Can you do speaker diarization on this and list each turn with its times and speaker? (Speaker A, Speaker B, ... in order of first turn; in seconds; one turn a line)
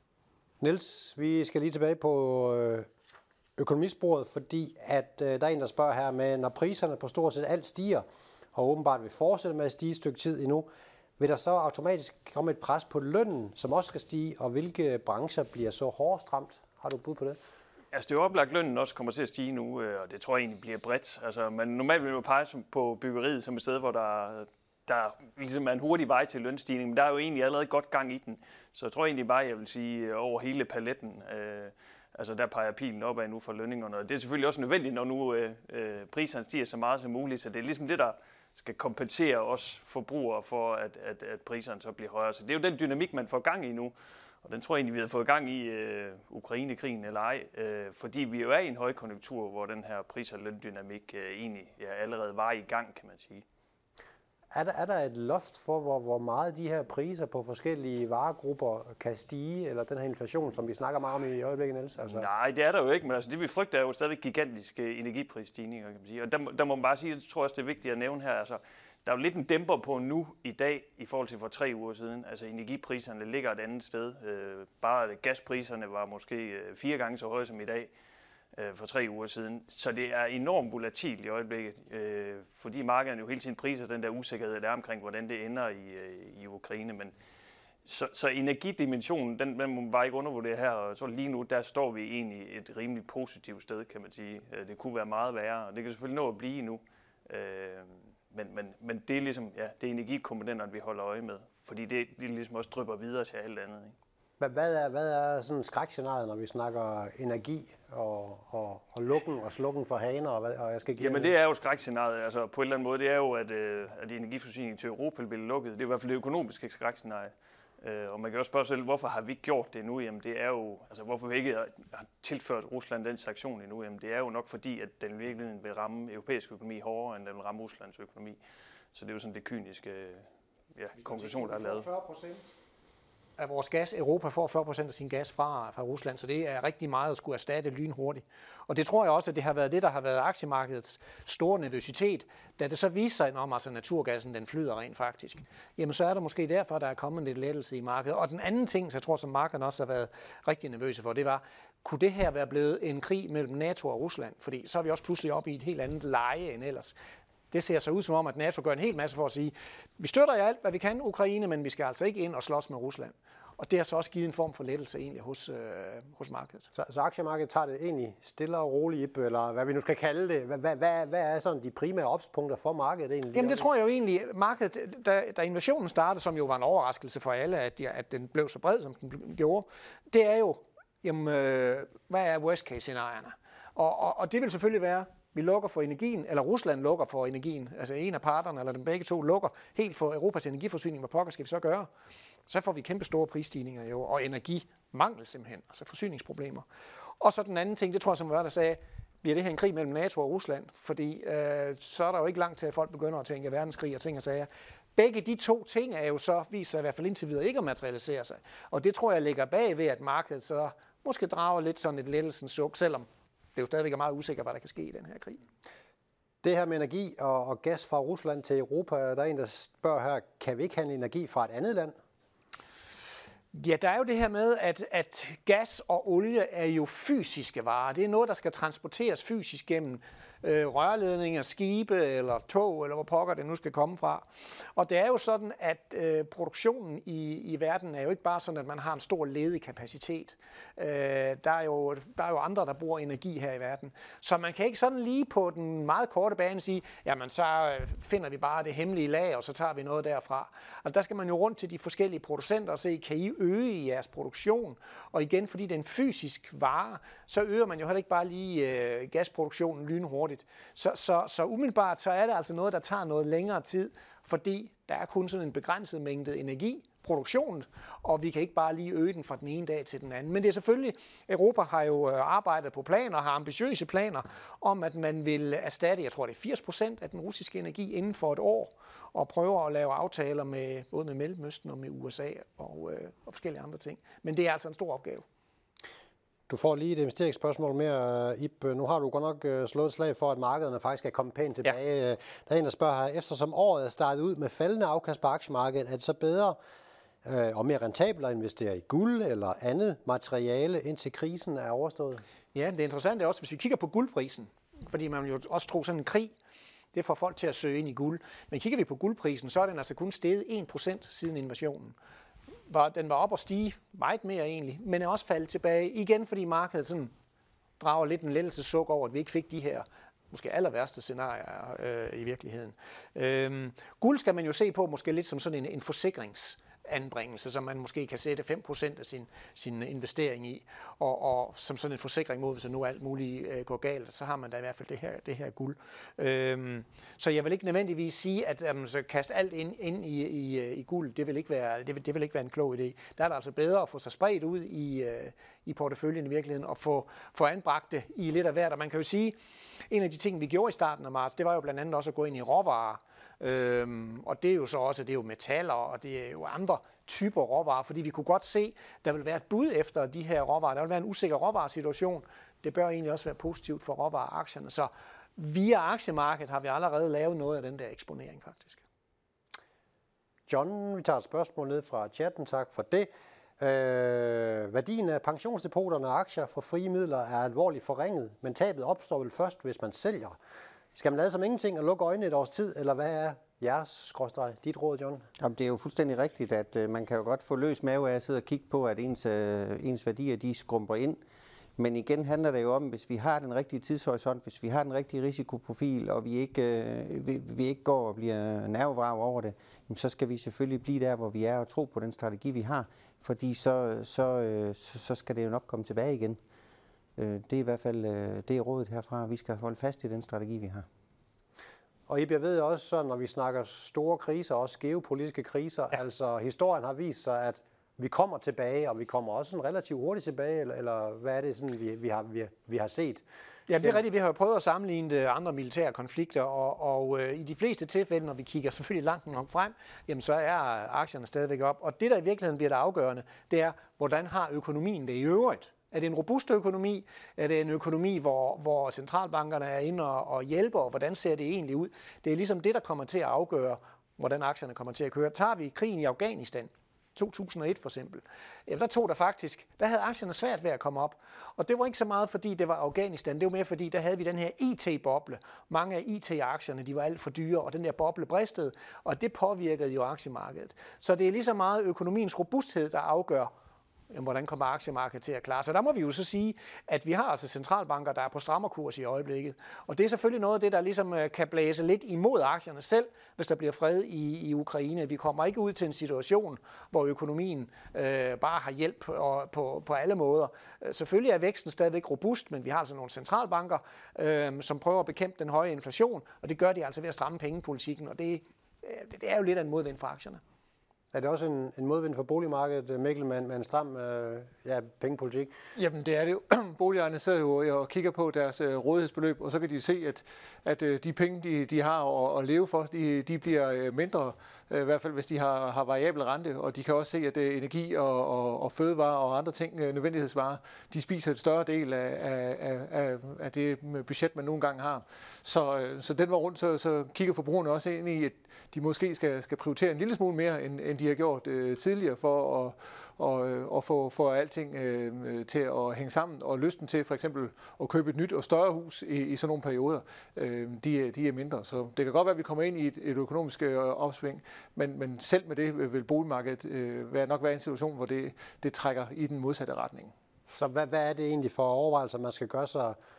Speaker A: 0.6-2.9
Speaker A: 3.6-17.4
Speaker B: 17.9-43.9
Speaker B: 44.4-53.5
Speaker A: 54.5-62.3
Speaker B: 62.0-77.9
Speaker B: 78.5-87.2
Speaker B: 87.8-104.0
Speaker A: 104.4-111.3
Speaker B: 111.0-128.4
Speaker B: 128.9-131.9
Speaker C: 131.0-132.5
Speaker C: 133.4-156.9
Speaker C: 157.5-166.7
Speaker A: 166.8-173.7
Speaker C: 173.3-191.9
Speaker C: 192.5-196.7
Speaker C: 197.2-215.4
Speaker A: 216.4-222.0
Speaker C: 223.5-285.2
Speaker A: 286.5-296.6
Speaker A: 297.2-302.2
Speaker C: 302.5-306.3
Speaker C: 306.9-311.9
Speaker C: 312.7-317.1
Speaker C: 317.8-349.4
Speaker C: 349.9-368.8
Speaker A: 370.5-380.4
Speaker A: 380.9-385.2
Speaker D: 385.4-391.2
Speaker D: 391.8-406.4
Speaker D: 407.2-410.9
Speaker A: 412.1-423.2
Speaker C: 423.7-463.5
Speaker C: 464.1-490.4
Speaker A: 491.1-495.5
Speaker E: 495.8-540.1
Speaker A: 540.5-543.0